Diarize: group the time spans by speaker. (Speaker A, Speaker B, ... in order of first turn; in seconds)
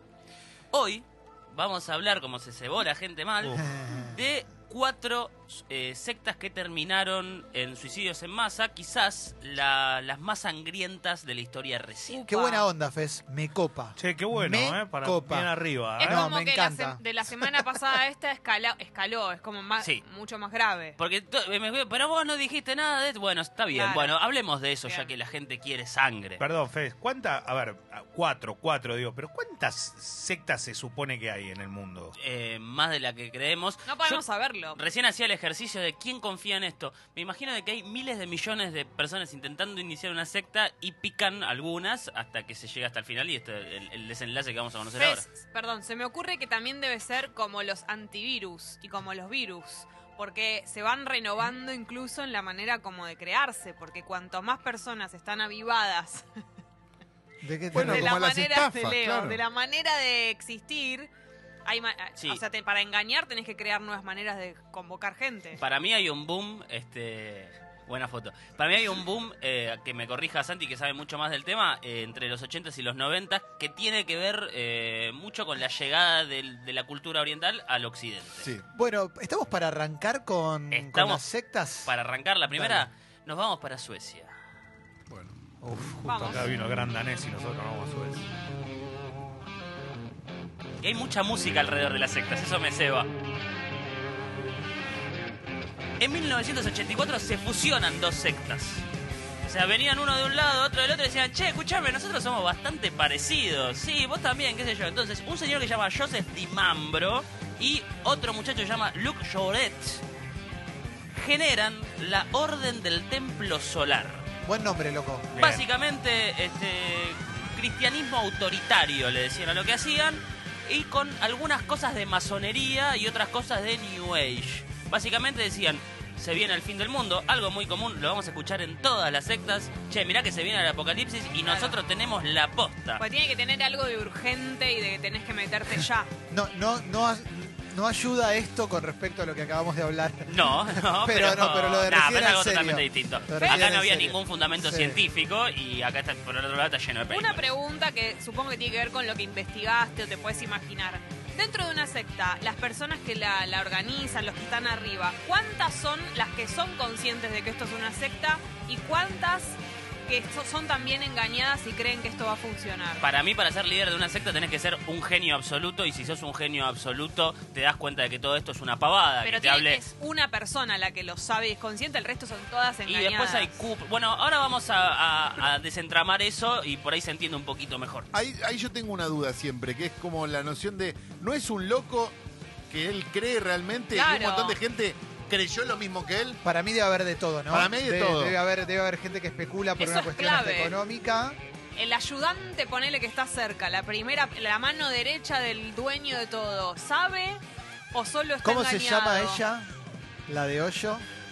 Speaker A: 0.7-12.2, 21.0-26.4, 32.2-34.2, 34.7-45.2, 65.6-78.5, 80.7-81.2, 81.8-84.4, 90.8-93.1, 96.0-98.9, 99.5-110.0, 111.1-114.3, 115.4-133.0, 140.3-147.4, 163.0-169.8, 172.9-178.1
Speaker B: 3.5-4.2, 12.3-17.5, 57.4-58.2, 78.7-82.0, 82.5-82.9, 114.5-115.3, 136.3-145.0, 186.4-191.4, 198.4-199.7, 200.3-201.1
Speaker C: 12.1-12.7, 16.0-21.0, 23.7-24.1, 24.9-25.1, 33.9-34.8, 45.0-56.2, 57.7-61.1, 61.6-65.6, 86.0-86.5, 131.4-131.8, 133.0-136.1, 143.4-143.7, 147.1-163.0, 169.2-173.6, 183.9-184.6, 189.8-190.8, 191.8-197.4, 197.9-199.4
Speaker D: 14.0-16.3, 26.4-32.2, 85.6-88.3, 115.4-115.6
Speaker E: 57.7-59.4, 78.4-78.7, 85.1-85.4, 178.1-182.2, 182.7-186.4, 187.5-188.4